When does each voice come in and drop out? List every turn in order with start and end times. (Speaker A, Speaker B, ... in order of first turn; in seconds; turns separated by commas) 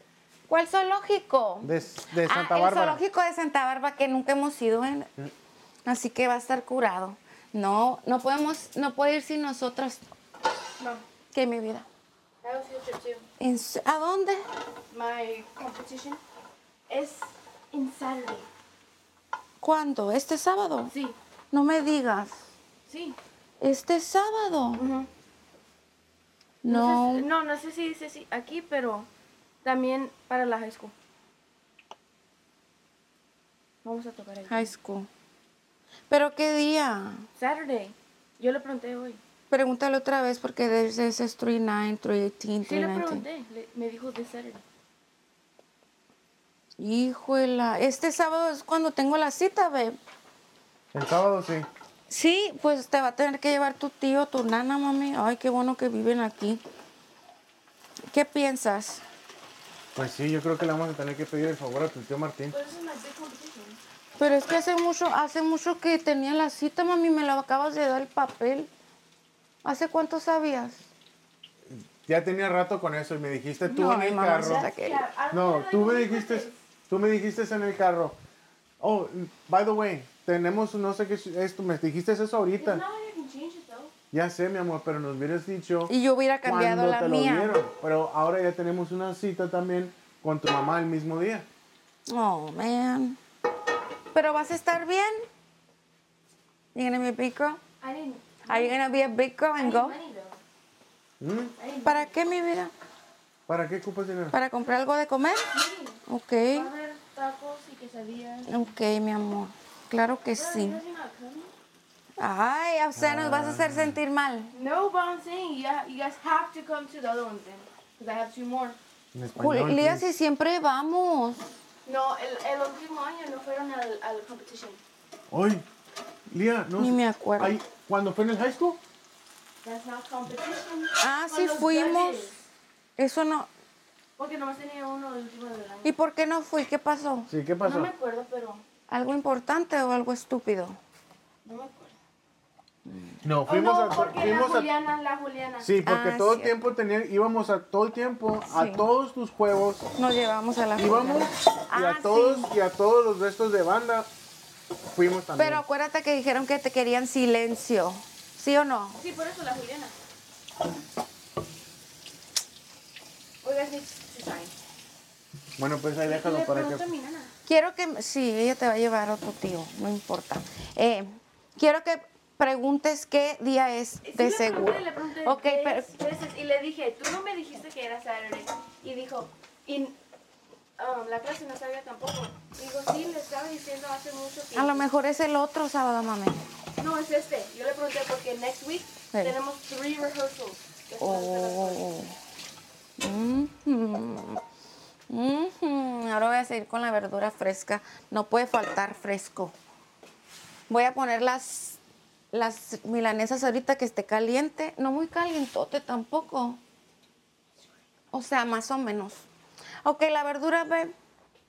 Speaker A: 0.5-5.1, Speaker B: 1.6-3.0, Speaker A: 5.8-10.0, Speaker C: 10.8-11.0, Speaker A: 11.3-11.8, Speaker C: 12.4-13.2, Speaker A: 13.4-14.4, Speaker C: 14.9-16.2, Speaker C: 16.9-18.5, Speaker A: 19.6-20.9, Speaker C: 20.9-21.1, Speaker A: 21.5-22.4, Speaker C: 22.9-23.2, Speaker A: 23.6-24.8, Speaker C: 24.7-25.1, Speaker A: 26.6-27.3, Speaker C: 26.6-29.1, Speaker C: 29.6-30.9, Speaker C: 33.8-34.7, Speaker A: 34.5-35.1, Speaker A: 36.1-37.3, Speaker C: 37.4-39.2, Speaker A: 39.5-43.2, Speaker C: 42.6-44.6, Speaker A: 46.8-50.0, Speaker B: 50.9-51.7, Speaker A: 52.1-56.6, Speaker A: 58.1-59.0, Speaker B: 59.9-62.6, Speaker C: 62.5-63.8, Speaker A: 64.2-68.7, Speaker A: 69.6-70.9, Speaker B: 71.7-74.7, Speaker A: 73.7-75.0, Speaker C: 74.4-76.6, Speaker B: 75.3-78.2, Speaker B: 78.8-82.8, Speaker C: 82.5-83.9, Speaker B: 84.1-85.9, Speaker A: 85.9-87.6, Speaker B: 86.4-91.5, Speaker A: 92.1-93.2, Speaker A: 94.1-95.2, Speaker A: 96.7-97.6, Speaker C: 97.8-98.8, Speaker A: 98.5-100.0, Speaker C: 99.6-100.4, Speaker B: 101.2-101.5, Speaker C: 101.5-102.2, Speaker A: 101.8-102.7, Speaker B: 103.5-104.3, Speaker A: 104.3-105.5, Speaker C: 105.5-106.0, Speaker A: 106.1-106.7, Speaker C: 106.5-108.5, Speaker A: 108.5-110.8, Speaker C: 110.3-111.5, Speaker A: 112.2-114.5, Speaker B: 112.9-114.0, Speaker C: 114.5-118.8, Speaker B: 119.1-120.0, Speaker A: 119.4-121.5, Speaker C: 121.8-124.8, Speaker B: 125.3-125.7, Speaker B: 126.3-128.8, Speaker A: 126.8-127.5, Speaker C: 129.6-132.3, Speaker A: 131.0-132.3, Speaker A: 133.0-133.5, Speaker C: 134.2-135.9, Speaker A: 135.8-137.3, Speaker B: 137.3-137.9, Speaker C: 137.6-138.6, Speaker A: 138.9-140.8, Speaker C: 141.4-141.9, Speaker A: 142.9-143.2, Speaker B: 143.2-144.7, Speaker C: 143.4-145.7, Speaker B: 145.6-149.9, Speaker A: 145.8-146.5, Speaker A: 148.5-148.9, Speaker A: 150.0-152.5, Speaker B: 150.8-154.1, Speaker B: 154.9-155.6, Speaker A: 155.3-159.0, Speaker C: 158.9-159.9, Speaker C: 163.4-164.5, Speaker B: 165.6-166.8, Speaker C: 166.0-167.3, Speaker A: 167.5-175.9, Speaker C: 174.0-179.9, Speaker C: 180.8-184.8, Speaker A: 184.5-186.4, Speaker C: 186.8-191.8, Speaker A: 191.0-192.1, Speaker A: 193.0-194.4, Speaker A: 195.1-199.5, Speaker A: 200.7-201.8, Speaker A: 202.3-206.6, Speaker A: 208.1-209.2, Speaker A: 209.8-210.9